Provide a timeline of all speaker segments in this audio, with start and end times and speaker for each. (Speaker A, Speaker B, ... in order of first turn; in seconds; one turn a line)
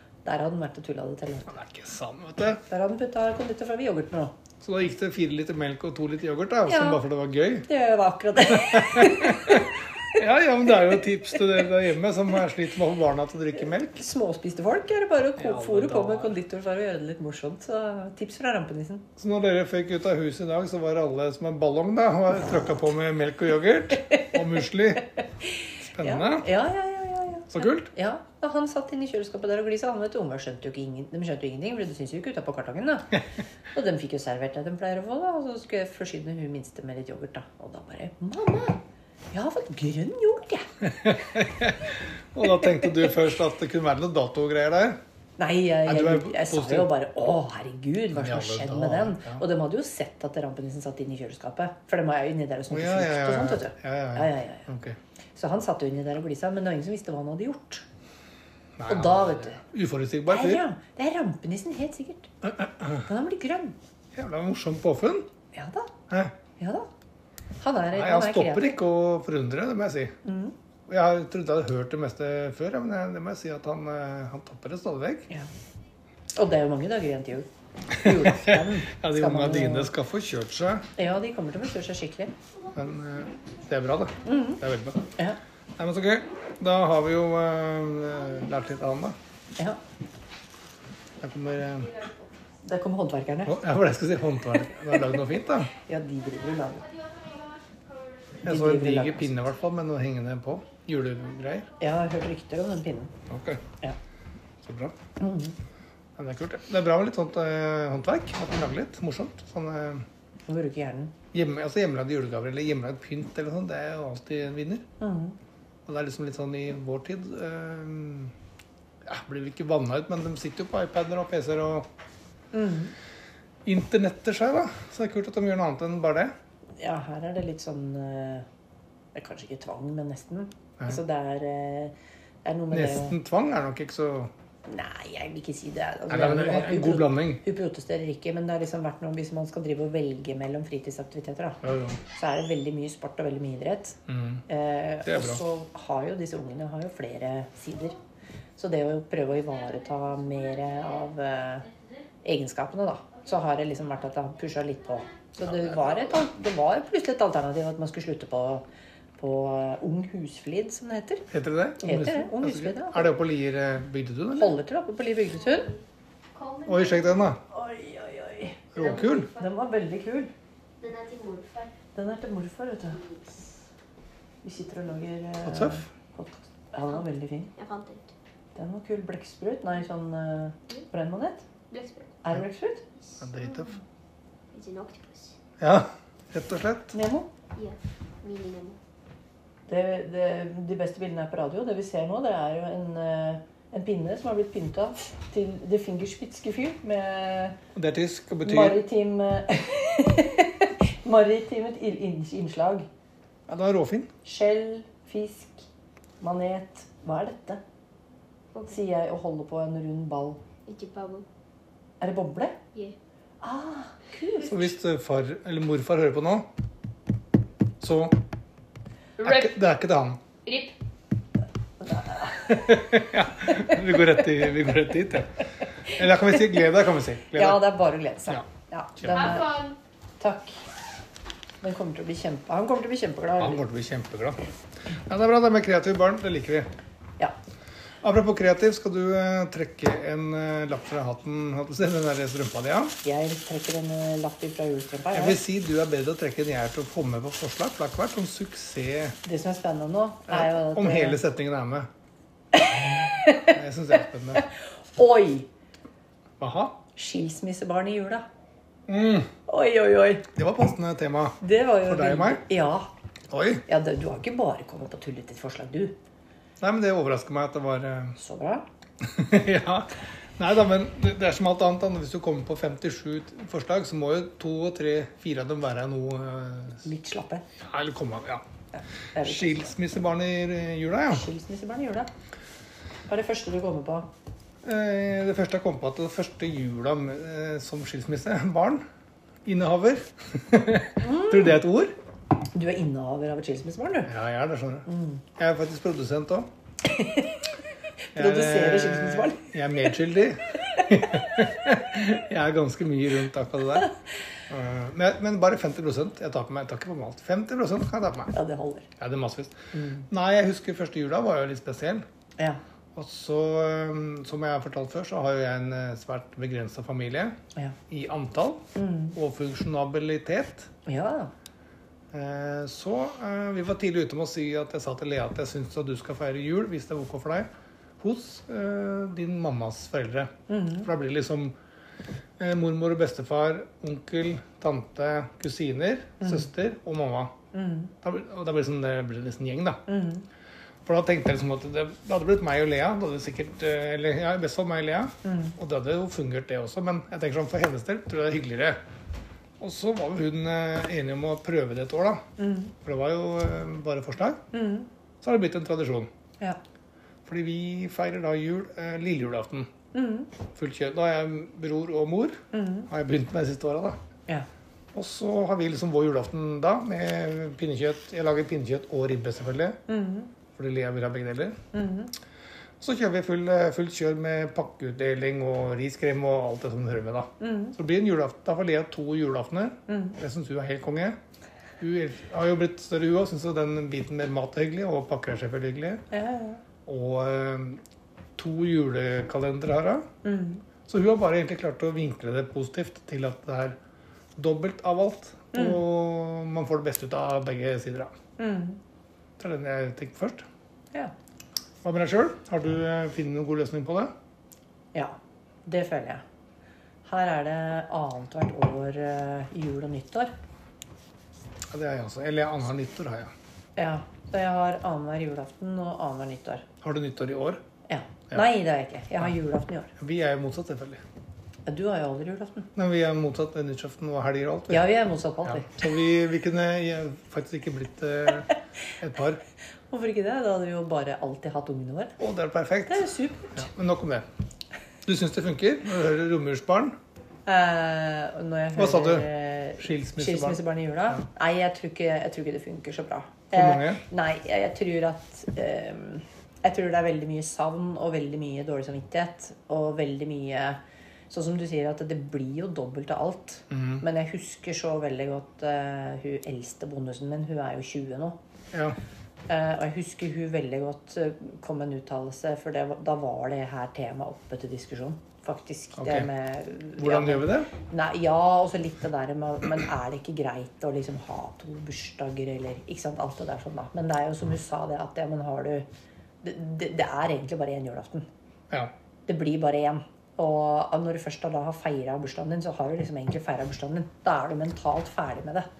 Speaker A: 0.2-1.6
Speaker B: 1.5-2.6
Speaker A: 2.7-4.3
Speaker B: 4.6-7.7
Speaker A: 6.7-7.0
Speaker A: 7.7-9.7
Speaker B: 8.4-14.0
Speaker A: 13.9-19.1
Speaker B: 15.4-16.4
Speaker B: 19.2-25.1
Speaker A: 24.1-24.4
Speaker A: 25.2-33.2
Speaker B: 25.9-26.5
Speaker B: 27.5-27.9
Speaker A: 33.7-38.8
Speaker A: 39.3-40.7
Speaker B: 40.8-45.0
Speaker A: 45.4-54.7
Speaker B: 45.9-46.9
Speaker B: 48.1-49.4
Speaker B: 52.7-55.0
Speaker A: 55.4-57.8
Speaker B: 58.8-60.6
Speaker A: 58.9-59.6
Speaker A: 60.3-62.3
Speaker B: 62.4-63.1
Speaker A: 63.0-63.8
Speaker B: 64.1-65.3
Speaker A: 65.5-65.9
Speaker B: 66.1-66.3
Speaker A: 66.6-66.9
Speaker A: 67.6-68.8
Speaker B: 67.9-70.2
Speaker A: 70.2-70.5
Speaker B: 70.9-75.3
Speaker A: 76.3-79.9
Speaker B: 78.0-80.9
Speaker A: 81.0-82.3
Speaker B: 82.7-85.0
Speaker C: 83.3-83.6
Speaker A: 84.2-84.6
Speaker B: 85.8-89.2
Speaker B: 91.2-91.9
Speaker C: 91.8-92.2
Speaker A: 92.6-93.6
Speaker B: 93.5-95.7
Speaker A: 95.7-96.9
Speaker C: 96.6-98.4
Speaker A: 98.4-99.4
Speaker B: 98.5-101.7
Speaker C: 101.2-101.8
Speaker A: 101.8-103.1
Speaker B: 103.3-103.6
Speaker B: 104.6-104.9
Speaker A: 105.2-105.6
Speaker B: 106.2-110.1
Speaker A: 110.5-111.1
Speaker B: 111.3-114.9
Speaker A: 115.0-115.4
Speaker B: 115.9-118.3
Speaker B: 119.1-121.9
Speaker A: 122.5-122.9
Speaker B: 123.7-126.3
Speaker A: 126.8-128.5
Speaker A: 129.1-133.2
Speaker B: 132.7-134.3
Speaker A: 134.7-141.6
Speaker B: 136.1-137.4
Speaker B: 141.6-142.0
Speaker A: 142.2-147.9
Speaker B: 144.1-144.4
Speaker B: 145.1-145.4
Speaker A: 148.6-151.7
Speaker C: 149.3-152.0
Speaker A: 152.2-158.6
Speaker C: 153.2-155.2
Speaker B: 155.5-156.2
Speaker A: 159.2-161.3
Speaker B: 161.3-164.6
Speaker A: 161.8-163.1
Speaker A: 164.3-165.7
Speaker C: 165.4-167.3
Speaker B: 166.7-167.4
Speaker A: 167.5-170.3
Speaker B: 168.7-169.3
Speaker C: 168.8-169.5
Speaker C: 170.8-171.7
Speaker A: 171.9-173.0
Speaker C: 172.9-173.5
Speaker A: 174.4-177.5
Speaker B: 175.4-175.8
Speaker C: 177.6-178.1
Speaker A: 178.6-181.4
Speaker C: 181.7-182.2
Speaker A: 182.2-182.8
Speaker C: 183.0-183.6
Speaker B: 183.2-183.8
Speaker C: 184.5-185.4
Speaker B: 185.6-186.9
Speaker A: 186.9-187.3
Speaker C: 187.6-188.8
Speaker A: 189.7-197.6
Speaker B: 197.7-198.8
Speaker A: 198.4-202.9
Speaker B: 203.5-204.1
Speaker A: 204.2-205.7
Speaker A: 206.2-207.6
Speaker C: 208.5-208.8
Speaker A: 208.7-210.4
Speaker C: 210.7-211.3
Speaker A: 212.0-212.6
Speaker A: 213.4-214.7
Speaker B: 214.4-216.5
Speaker B: 217.8-218.2
Speaker C: 219.2-219.5
Speaker B: 219.2-220.2
Speaker C: 220.4-220.8
Speaker A: 221.8-224.2
Speaker B: 222.5-227.7
Speaker A: 225.9-226.6
Speaker A: 227.3-229.6
Speaker B: 229.0-229.5
Speaker C: 229.1-229.8
Speaker A: 230.2-230.6
Speaker A: 231.6-233.6
Speaker B: 233.4-234.4
Speaker B: 235.0-236.7
Speaker B: 238.0-243.0
Speaker A: 243.0-245.4
Speaker B: 245.1-249.2
Speaker A: 249.2-251.2
Speaker B: 250.3-251.9
Speaker A: 252.5-253.6
Speaker B: 253.5-254.4
Speaker A: 254.3-255.5
Speaker B: 256.4-256.8
Speaker A: 257.0-258.2
Speaker B: 258.9-259.3
Speaker A: 259.5-260.3
Speaker B: 260.4-262.4
Speaker A: 261.4-262.9
Speaker B: 263.3-263.6
Speaker A: 263.7-266.0
Speaker B: 266.6-268.2
Speaker A: 268.2-268.7
Speaker B: 269.0-276.9
Speaker A: 276.8-277.4
Speaker B: 277.6-278.4
Speaker A: 278.7-279.7
Speaker B: 279.2-281.3
Speaker A: 281.1-282.1
Speaker A: 283.1-284.1
Speaker B: 284.6-288.8
Speaker B: 289.4-291.9
Speaker A: 291.0-291.6
Speaker A: 292.5-294.1
Speaker B: 294.1-296.5
Speaker A: 294.9-295.2
Speaker A: 296.8-297.4
Speaker A: 298.1-299.5
Speaker B: 298.1-303.9
Speaker B: 304.5-308.3
Speaker A: 308.3-308.9
Speaker B: 309.0-312.1
Speaker A: 309.7-310.1
Speaker B: 312.9-317.4
Speaker B: 317.9-320.7
Speaker A: 318.8-319.1
Speaker A: 320.9-321.3
Speaker B: 322.1-331.6
Speaker A: 330.5-330.9
Speaker B: 332.4-337.3
Speaker A: 336.2-336.5
Speaker A: 337.5-337.9
Speaker B: 338.0-339.8
Speaker A: 339.9-340.3
Speaker B: 340.9-348.8
Speaker A: 345.2-345.6
Speaker B: 349.6-352.2
Speaker A: 352.4-352.7
Speaker B: 352.8-354.4
Speaker A: 354.5-354.9
Speaker B: 355.2-356.1
Speaker B: 357.3-359.7
Speaker A: 359.9-360.3
Speaker B: 360.6-364.0
Speaker A: 362.5-362.9
Speaker B: 364.9-369.8
Speaker A: 369.9-370.3
Speaker B: 370.6-371.6
Speaker A: 371.7-372.1
Speaker B: 372.8-381.2
Speaker A: 377.4-377.8
Speaker A: 379.9-380.2
Speaker B: 381.8-386.0
Speaker A: 386.1-386.6
Speaker B: 386.9-387.8
Speaker B: 388.4-390.1
Speaker A: 390.2-390.6
Speaker B: 390.9-393.8
Speaker B: 394.4-398.1
Speaker A: 395.5-395.8
Speaker A: 398.4-398.8
Speaker B: 399.4-400.4
Speaker B: 401.8-404.1
Speaker A: 404.9-406.2
Speaker A: 407.1-410.3
Speaker B: 411.7-413.3
Speaker A: 413.8-416.7
Speaker B: 416.8-417.6
Speaker A: 417.9-419.9
Speaker B: 420.0-421.0
Speaker A: 421.7-422.7
Speaker B: 422.8-424.9
Speaker A: 424.7-425.9
Speaker B: 425.4-429.4
Speaker A: 429.9-432.2
Speaker B: 432.2-434.3
Speaker A: 432.9-433.7
Speaker B: 435.1-437.0
Speaker A: 437.5-450.8
Speaker B: 438.7-441.2
Speaker B: 443.5-444.0
Speaker A: 451.3-458.4
Speaker B: 453.7-454.0
Speaker B: 458.7-459.0
Speaker A: 459.5-475.9
Speaker B: 466.0-466.3
Speaker B: 467.0-467.7
Speaker A: 476.4-478.3
Speaker A: 479.3-485.7